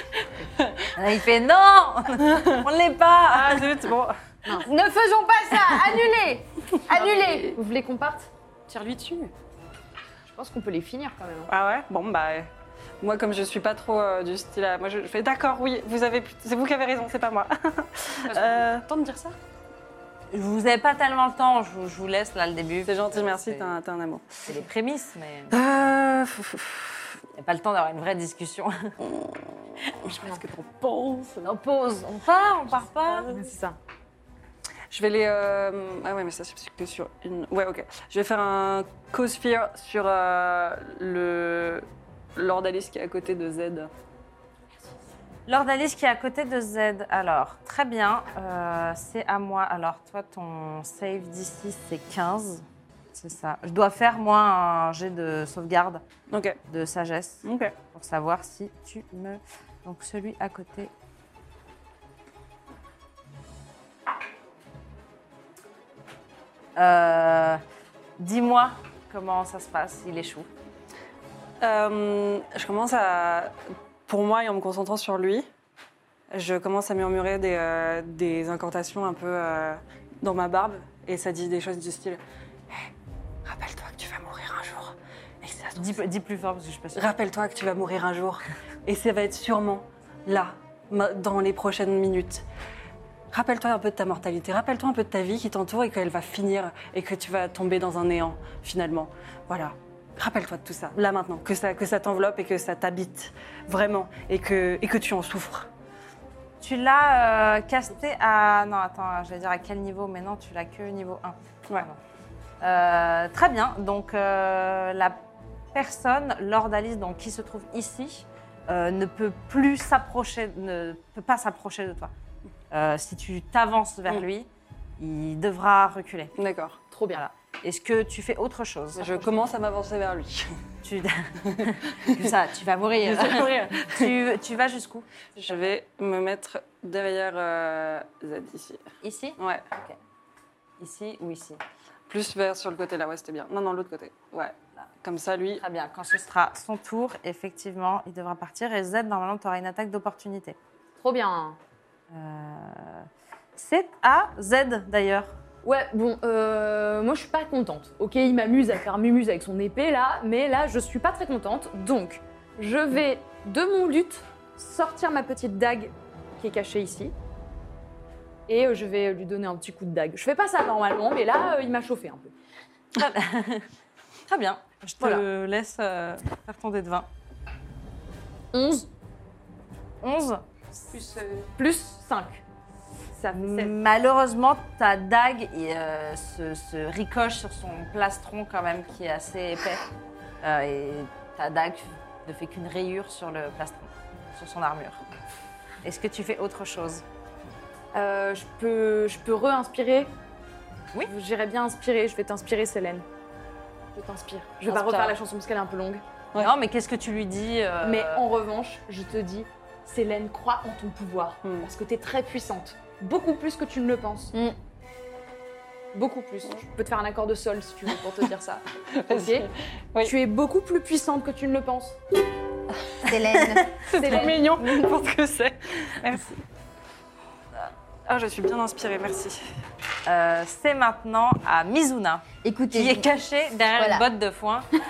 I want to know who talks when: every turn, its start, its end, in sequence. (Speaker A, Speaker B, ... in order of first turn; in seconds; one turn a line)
Speaker A: 0.6-0.9
Speaker B: 0.9-3.7
Speaker A: 2.2-2.6
Speaker A: 3.3-4.6
Speaker C: 4.5-7.5
Speaker D: 6.9-7.5
Speaker E: 7.0-8.3
Speaker D: 8.7-9.3
Speaker E: 10.2-11.5
Speaker A: 11.5-12.5
Speaker A: 13.0-18.8
Speaker D: 18.2-19.4
Speaker B: 20.3-23.8
Speaker A: 22.9-24.4
Speaker B: 24.5-25.6
Speaker A: 25.5-27.2
Speaker B: 27.4-28.9
Speaker A: 29.0-29.4
Speaker A: 30.1-31.3
Speaker B: 31.4-33.3
Speaker E: 33.1-33.8
Speaker A: 34.9-43.9
Speaker B: 45.5-56.0
Speaker A: 56.3-56.6
Speaker B: 56.7-60.9
Speaker A: 57.4-57.7
Speaker B: 66.8-67.6
Speaker B: 68.2-70.5
Speaker A: 71.6-73.5
Speaker A: 74.1-75.5
Speaker A: 76.3-82.9
Speaker A: 83.4-86.0
Speaker B: 85.8-87.1
Speaker A: 86.9-92.4
Speaker A: 93.3-105.7
Speaker B: 106.6-112.0
Speaker B: 112.6-115.2
Speaker B: 115.7-122.1
Speaker B: 122.7-126.3
Speaker A: 126.4-126.8
Speaker E: 126.9-127.2
Speaker B: 127.1-129.3
Speaker A: 128.9-130.5
Speaker B: 130.8-135.1
Speaker A: 131.5-132.2
Speaker A: 133.0-134.1
Speaker A: 135.4-138.8
Speaker B: 139.0-140.0
Speaker A: 139.4-139.6
Speaker B: 140.8-141.6
Speaker A: 142.1-145.6
Speaker B: 145.6-150.6
Speaker E: 151.0-151.6
Speaker B: 152.1-155.3
Speaker E: 155.6-167.1
Speaker E: 168.5-172.3
Speaker B: 172.9-173.7
Speaker B: 174.3-177.1
Speaker E: 178.5-178.9
Speaker B: 180.0-180.4
Speaker D: 180.9-181.4
Speaker E: 180.9-182.4
Speaker E: 183.1-183.8
Speaker B: 183.3-189.8
Speaker B: 190.4-195.0
Speaker B: 195.8-197.0
Speaker E: 197.9-200.1
Speaker E: 201.0-203.1
Speaker E: 203.9-206.0
Speaker D: 204.7-205.1
Speaker B: 206.4-208.2
Speaker E: 207.8-214.3
Speaker A: 211.4-211.7
Speaker E: 215.9-219.5
Speaker A: 218.9-220.1
Speaker E: 220.0-222.0
Speaker C: 223.0-224.8
Speaker B: 223.4-223.6
Speaker A: 223.8-226.4
Speaker E: 223.9-224.6
Speaker A: 228.1-229.4
Speaker B: 230.1-234.7
Speaker C: 232.4-233.1
Speaker C: 233.7-234.0